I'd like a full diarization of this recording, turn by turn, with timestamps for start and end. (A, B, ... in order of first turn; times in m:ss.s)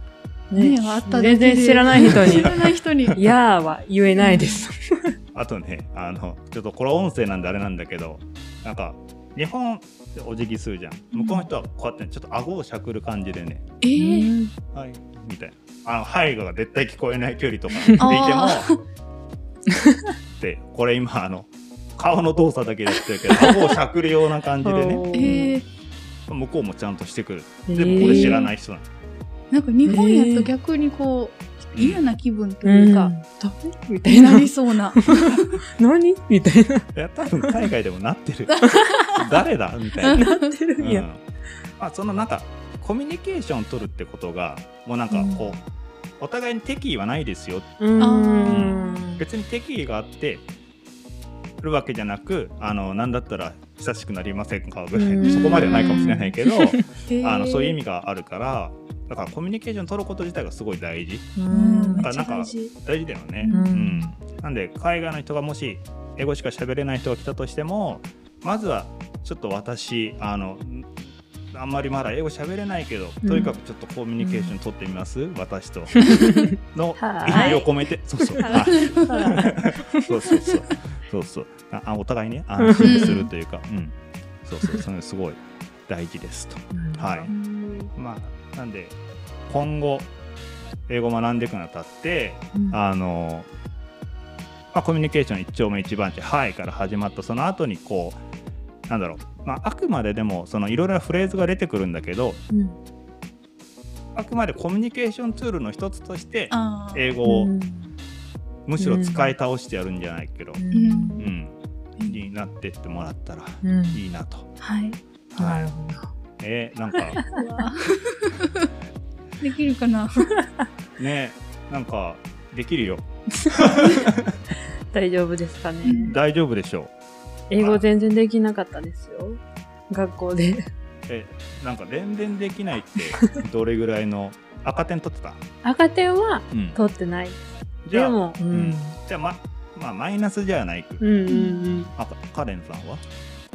0:00.5-0:02.5 A
0:00.6-0:03.2 B
0:02.0-0:02.5 C
0:03.1-0:05.1 A
0:04.2-0:04.6 B
0:05.3-0:13.6 C
0:11.1-0:11.4 B
0:13.8-0:14.3 B
0:14.0-0:14.5 A
0:14.7-0:18.7 C
0:17.8-0:18.2 A
0:18.0-0:18.8 B
0:20.4-0:25.0 C
0:24.6-0:25.6 A
0:25.1-0:25.6 B
0:26.3-0:28.8 C
0:27.7-0:28.5 A
0:27.9-0:28.5 B
0:29.5-0:33.1 B
0:29.9-0:30.5 A
0:31.7-0:32.0 C
0:32.6-0:36.8 A
0:34.0-0:35.0 B
0:36.9-0:38.5 C
0:37.4-0:37.7 A
0:38.5-0:39.4 B
0:38.6-0:38.9 A
0:39.1-0:40.3 C
0:40.0-0:40.5 B
0:40.1-0:41.0 A
0:40.8-0:41.2 C
0:41.8-0:45.6 C
0:45.1-0:45.5 A
0:46.2-0:47.7 C
0:47.8-0:49.2 A
0:48.0-0:49.0 B
0:48.4-0:50.5 C
0:51.6-1:01.3 C
0:54.9-0:56.9 A
0:55.2-0:56.2 B
0:57.0-0:57.8 B
1:01.4-1:02.1 A
1:01.5-1:02.7 B
1:02.0-1:10.9 C
1:03.4-1:03.7 B
1:03.5-1:04.1 A
1:11.5-1:16.0 C
1:13.2-1:13.6 A
1:14.2-1:14.5 A
1:16.0-1:16.4 A
1:16.7-1:27.3 C
1:17.0-1:17.7 A
1:17.3-1:17.6 B
1:18.4-1:20.3 A
1:18.4-1:19.4 B
1:22.6-1:23.2 A
1:22.8-1:23.2 B
1:26.7-1:27.6 A
1:27.2-1:27.9 B
1:27.9-1:29.0 C
1:29.5-1:30.1 C
1:30.9-1:33.5 C
1:32.5-1:32.8 A
1:34.7-1:38.2 C
1:38.9-1:42.4 C
1:42.5-1:42.8 A
1:44.1-1:47.5 C
1:46.5-1:47.2 B
1:47.2-1:47.9 A
1:48.7-1:50.6 C
1:48.8-1:49.3 A
1:50.6-1:51.2 A
1:50.7-1:51.4 B
1:51.2-1:51.6 C
1:52.0-1:52.2 B
1:52.1-1:54.5 C
1:53.6-1:54.0 A
1:54.6-1:55.0 B
1:55.3-1:55.7 C
1:55.4-1:56.1 A
1:56.4-1:57.2 C
1:57.3-1:58.5 B
1:59.4-2:00.3 B
2:01.0-2:03.9 C
2:04.9-2:06.2 A
2:05.8-2:06.2 B
2:06.1-2:06.9 C
2:07.5-2:10.6 A
2:11.1-2:15.4 C
2:15.6-2:19.0 A
2:16.5-2:16.8 C
2:17.8-2:21.0 C
2:21.0-2:21.9 A
2:21.3-2:21.9 B
2:22.0-2:23.0 C